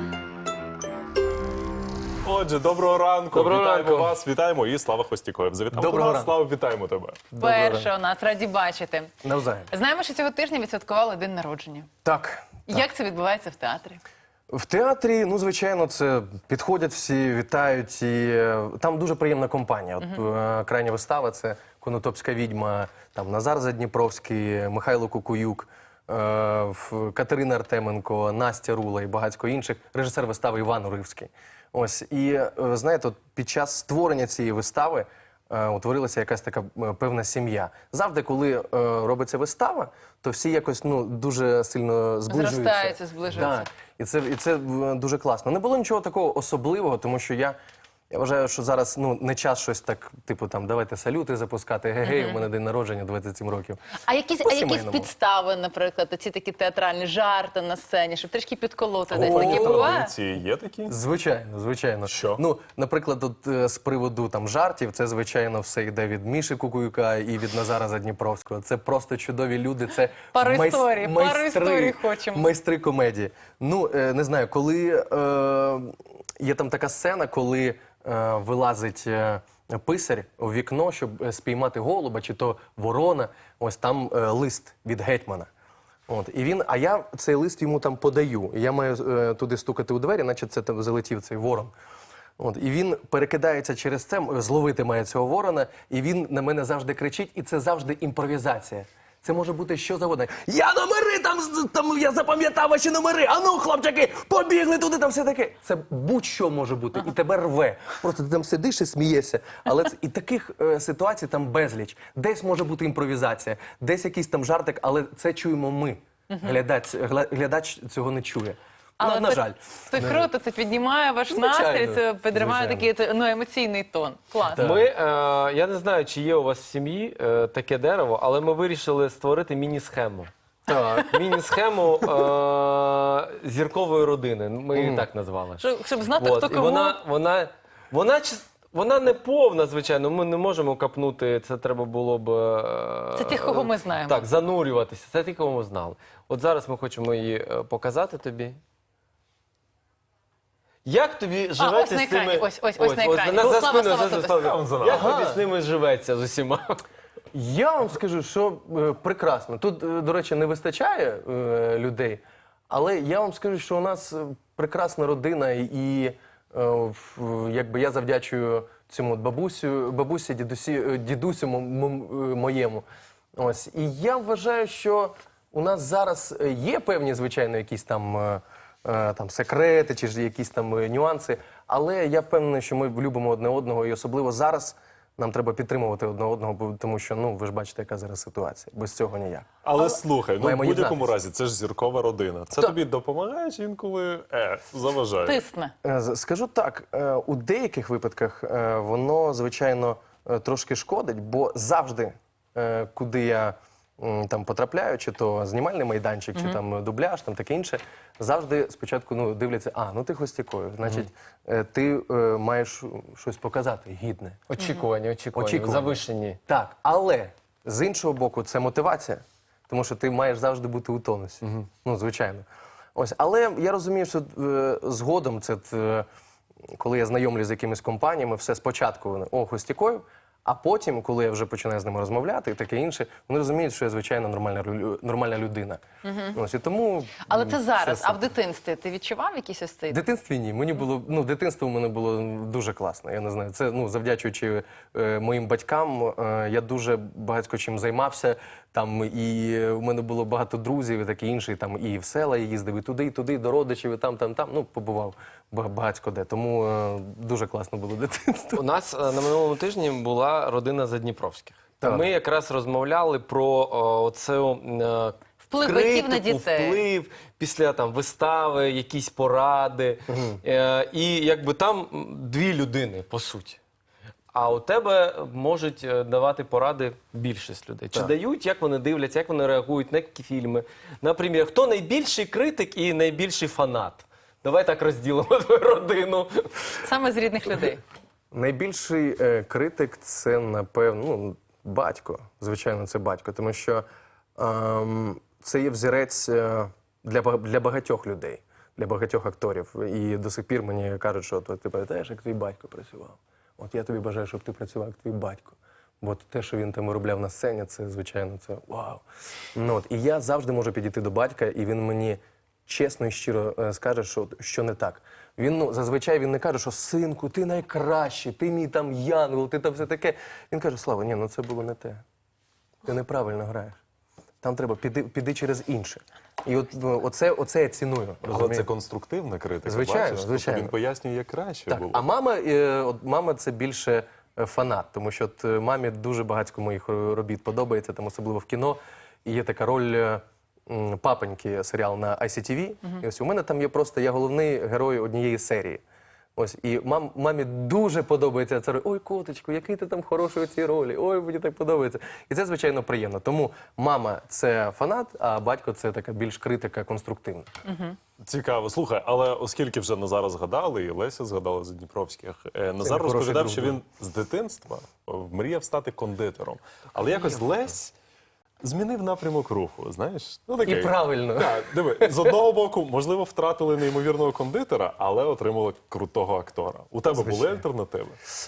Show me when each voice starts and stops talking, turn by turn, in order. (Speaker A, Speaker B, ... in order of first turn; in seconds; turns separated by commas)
Speaker A: 2.2-7.2, Speaker B: 3.3-4.1, Speaker C: 5.7-6.4, Speaker C: 7.3-7.9, Speaker D: 7.4-9.1, Speaker C: 9.2-9.7, Speaker D: 9.7-11.9, Speaker C: 12.0-12.9, Speaker D: 12.7-14.0, Speaker C: 14.5-47.5, Speaker D: 42.3-43.6, Speaker C: 48.1-53.8, Speaker D: 52.0-52.4, Speaker D: 54.1-60.1, Speaker C: 54.4-55.1, Speaker C: 59.1-59.9, Speaker A: 59.5-60.9, Speaker C: 60.9-85.5, Speaker A: 62.1-62.4, Speaker D: 70.3-72.5, Speaker C: 86.1-91.7, Speaker C: 92.4-120.3, Speaker D: 116.3-116.5, Speaker D: 119.0-124.6, Speaker C: 121.3-122.9, Speaker C: 124.4-124.9, Speaker B: 124.6-130.3, Speaker C: 130.7-131.1, Speaker B: 130.9-135.7, Speaker C: 134.7-135.0, Speaker D: 135.6-137.0, Speaker B: 136.2-148.6, Speaker D: 143.2-144.3, Speaker B: 150.8-156.8, Speaker D: 151.6-154.5, Speaker A: 154.4-155.0, Speaker C: 154.8-155.4, Speaker C: 157.3-172.8, Speaker C: 173.4-189.5, Speaker A: 189.6-195.3, Speaker C: 190.4-191.1, Speaker D: 195.2-195.7, Speaker C: 195.8-214.4, Speaker B: 214.5-216.4, Speaker D: 214.6-214.9, Speaker C: 215.3-226.1, Speaker C: 226.8-235.8, Speaker D: 236.0-236.4, Speaker C: 236.3-238.3, Speaker D: 237.3-240.0, Speaker C: 239.9-258.6, Speaker B: 258.5-273.6, Speaker C: 261.8-262.1, Speaker D: 265.4-266.8, Speaker C: 270.1-270.4, Speaker B: 274.3-286.9, Speaker D: 286.8-287.8, Speaker C: 288.3-293.8, Speaker C: 294.4-309.0, Speaker C: 309.5-322.0, Speaker C: 322.8-323.8, Speaker C: 324.4-328.7, Speaker A: 328.3-332.0, Speaker C: 329.6-330.8, Speaker C: 331.7-345.8, Speaker C: 346.4-357.5, Speaker D: 357.7-358.0, Speaker A: 358.2-367.9, Speaker C: 362.8-363.8, Speaker A: 368.6-378.2, Speaker C: 370.6-372.3, Speaker C: 377.1-377.6